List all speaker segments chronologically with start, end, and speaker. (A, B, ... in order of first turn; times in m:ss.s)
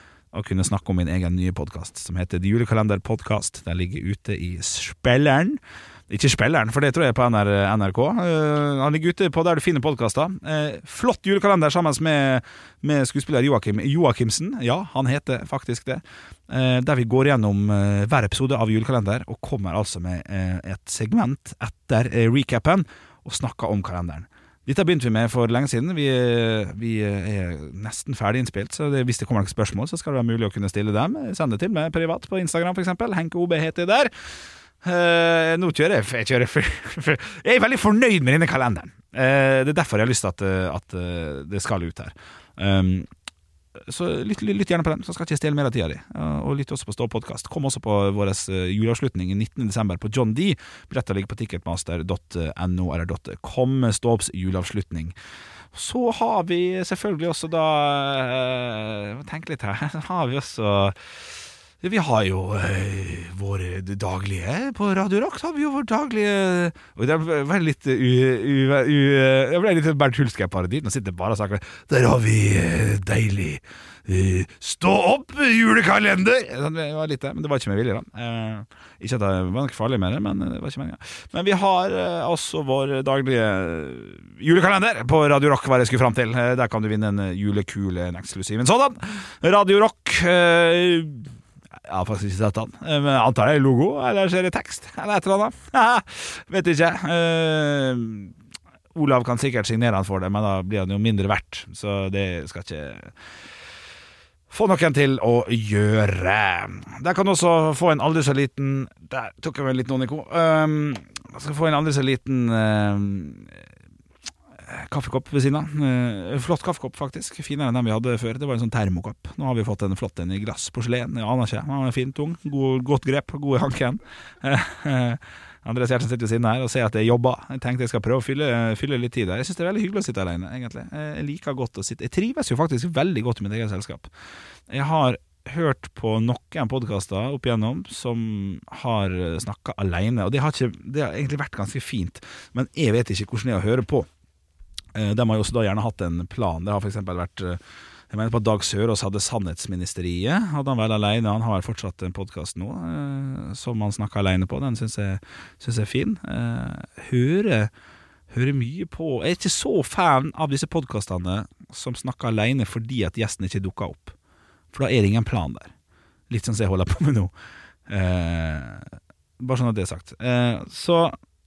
0:00.3-0:34.1 A
0:34.8-0:43.1 A
0:43.8-0:55.2 A
0:55.7-1:01.0 A
1:01.8-1:31.3 A
1:31.9-1:38.3 A
1:39.0-1:43.1 A
1:44.5-1:53.6 A
1:54.6-2:14.1 A
2:14.7-2:24.1 A
2:25.0-2:27.6 A
2:28.1-2:37.7 A
2:38.3-2:44.2 A
2:44.7-2:45.7 A
2:46.3-2:47.3 A
2:47.9-2:51.2 A